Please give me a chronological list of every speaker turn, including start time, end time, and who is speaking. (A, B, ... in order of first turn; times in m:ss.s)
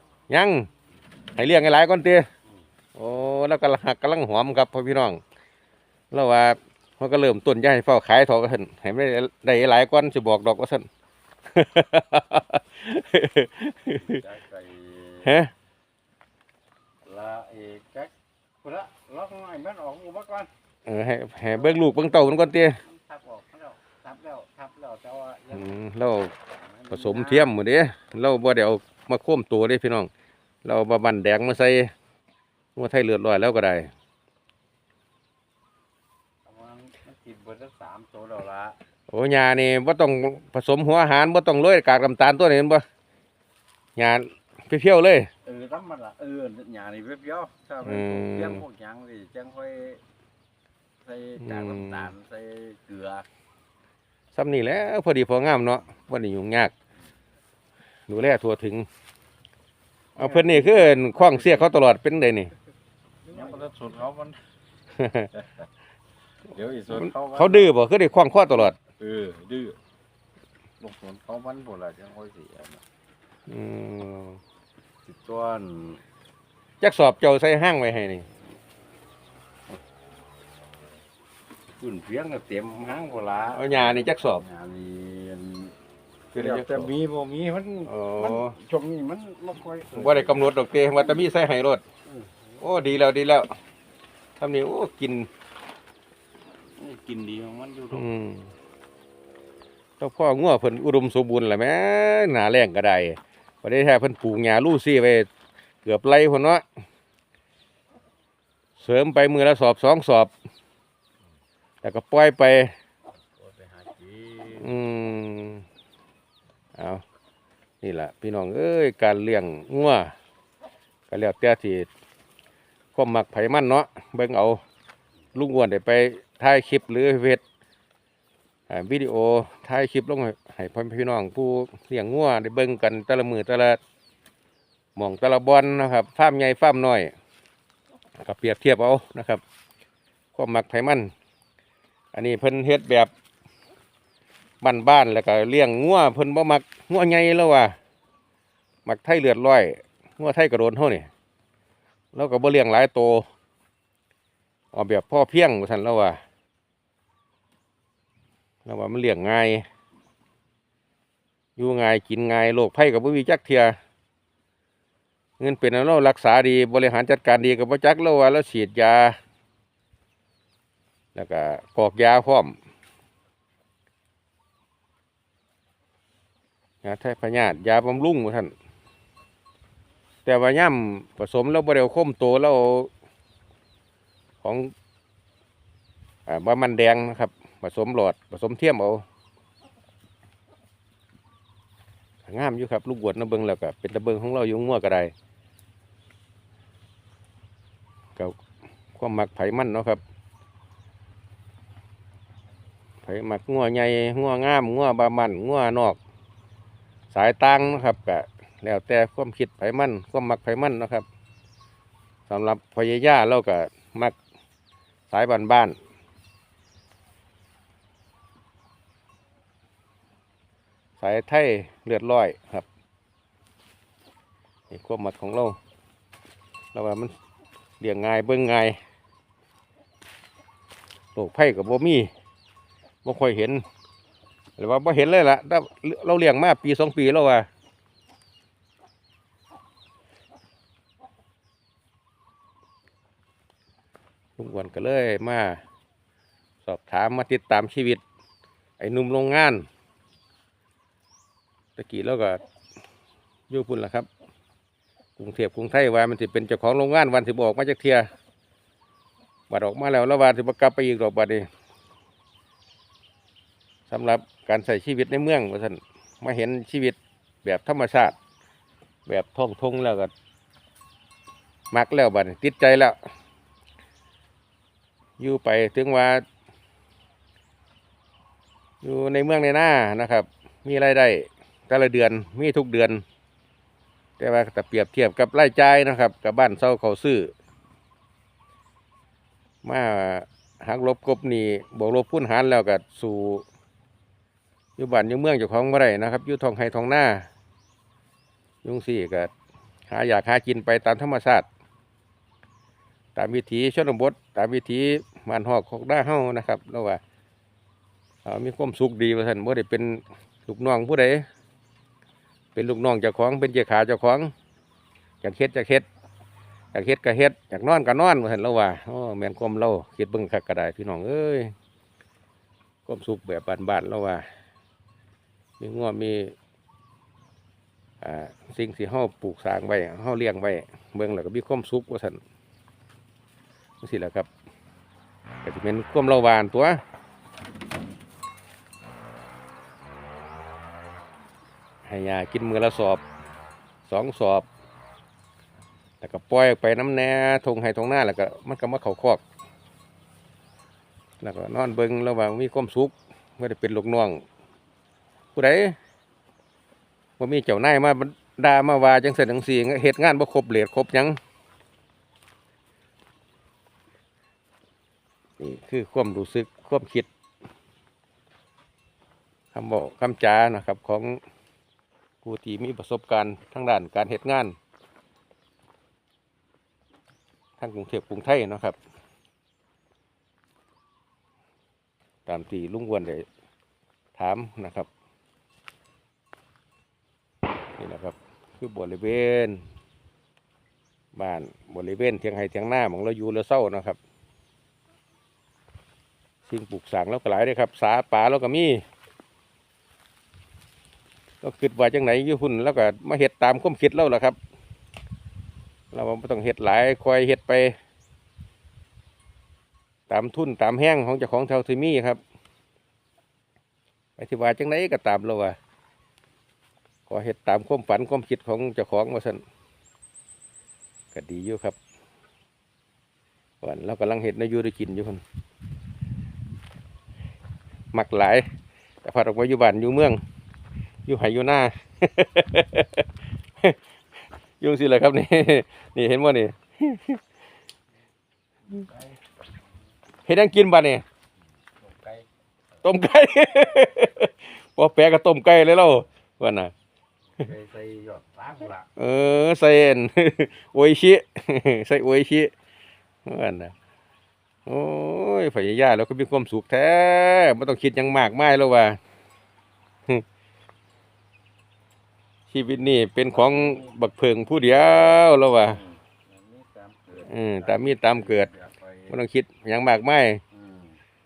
0:00.3-0:00.7 A
0:01.3-0:02.3 A
0:02.9-0:05.2 A
0:06.1-0:10.9 A
0:11.5-0:14.2 A
0:13.9-0:15.3 B
0:15.2-0:15.5 A
0:17.0-0:20.5 B
0:20.8-0:22.8 A
0:21.5-0:25.7 B
0:25.5-0:26.3 A
0:26.5-0:27.5 B
0:26.9-0:30.1 A
0:30.6-0:31.9 A
0:32.8-0:33.9 A
0:36.4-0:38.8 B
0:39.1-0:42.8 A
0:44.0-0:45.3 A
0:45.4-0:50.0 B
0:47.8-0:48.6 A
0:51.0-0:53.3 B
0:51.4-0:52.1 A
0:54.3-0:56.7 A
0:58.1-0:58.9 A
1:00.2-1:01.7 B
1:00.2-1:02.5 A
1:03.2-1:04.3 B
1:05.0-1:05.3 A
1:06.5-1:07.7 B
1:06.9-1:08.8 A
1:08.9-1:09.8 B
1:10.8-1:12.8 B
1:13.5-1:14.4 A
1:15.0-1:16.0 B
1:16.8-1:18.2 A
1:21.8-1:25.7 B
1:23.5-1:24.4 A
1:26.3-1:26.9 A
1:26.3-1:30.5 B
1:27.8-1:28.5 A
1:29.9-1:31.8 A
1:32.0-1:32.6 B
1:32.6-1:33.5 A
1:34.4-1:35.3 A
1:36.8-1:38.0 B
1:37.9-1:38.5 A
1:40.0-1:45.3 A
1:45.8-1:46.6 A
1:48.8-1:50.3 A
1:51.8-1:52.7 A
1:53.4-1:54.7 B
1:54.5-1:55.6 A
1:56.8-1:57.0 A
1:57.8-2:00.1 A
2:01.1-2:01.9 A
2:02.9-2:04.6 A
2:05.3-2:07.4 A
2:08.7-2:13.8 A
2:15.0-2:17.1 A
2:18.2-2:19.4 A
2:20.3-2:21.1 A
2:22.1-2:23.1 A
2:24.6-2:27.7 A
2:28.8-2:31.1 A
2:32.1-2:33.2 A
2:34.7-2:36.2 A
2:38.6-2:39.6 A
2:41.6-2:43.8 A
2:45.4-2:49.2 A
2:51.1-2:52.6 A
2:56.8-2:58.5 A
3:00.2-3:02.9 A
3:04.4-3:04.7 A
3:06.3-3:09.0 A
3:12.2-3:15.1 A
3:19.0-3:20.0 A
3:23.0-3:26.0 A
3:27.1-3:31.0 A
3:32.3-3:34.2 A
3:35.1-3:35.8 A
3:41.0-3:42.7 A
3:44.7-3:45.6 A
3:46.7-3:47.1 A
3:47.8-3:48.8 A
3:51.1-3:52.1 A
3:53.0-3:53.6 A
3:54.6-3:57.5 A
4:04.4-4:05.6 A
4:06.6-4:08.0 A
4:08.8-4:09.6 A
4:11.8-4:12.4 A
4:13.5-4:14.1 A
4:15.2-4:18.1 A
4:19.5-4:21.5 A
4:23.9-4:28.2 A
4:29.1-4:30.1 A
4:31.7-4:33.0 A
4:35.2-4:36.2 A
4:38.8-4:43.0 A
4:44.2-4:47.3 A
4:49.6-4:53.4 A
4:54.8-4:57.3 A
4:58.6-4:59.3 A
4:59.9-5:01.4 A
5:03.2-5:07.0 A
5:08.2-5:11.2 A
5:12.5-5:14.3 A
5:15.2-5:15.8 A
5:16.7-5:21.5 A
5:22.9-5:24.2 A
5:25.6-5:26.3 A
5:28.0-5:32.2 A
5:33.8-5:34.3 A
5:35.4-5:36.8 A
5:41.8-5:43.0 A
5:43.9-5:44.5 A
5:46.0-5:49.2 A
5:51.2-5:54.2 A
5:55.3-5:55.8 A
5:57.2-6:01.2 A
6:05.4-6:07.1 A
6:09.5-6:11.2 A
6:12.2-6:14.5 A
6:17.6-6:18.8 A
6:22.3-6:23.2 A
6:24.2-6:24.9 A
6:27.8-6:29.6 A
6:31.1-6:34.0 A
6:36.5-6:38.8 A
6:41.4-6:44.4 A
6:45.9-6:47.8 A
6:50.1-6:52.2 A
6:54.2-6:55.6 A
6:57.1-6:59.4 A
7:01.1-7:01.8 A
7:03.6-7:05.2 A
7:07.9-7:08.5 A
7:09.0-7:10.2 A
7:11.0-7:13.0 A
7:14.6-7:17.2 A
7:18.7-7:19.2 B
7:20.3-7:21.0 A
7:21.8-7:22.3 B
7:22.8-7:26.7 A
7:27.4-7:28.9 B
7:29.0-7:32.5 A
7:33.2-7:33.7 A
7:34.6-7:39.0 A
7:42.5-7:45.8 A
7:43.3-7:43.8 B
7:45.6-7:49.1 B
7:47.2-7:48.5 A
7:49.1-7:50.4 A
7:50.5-7:51.0 B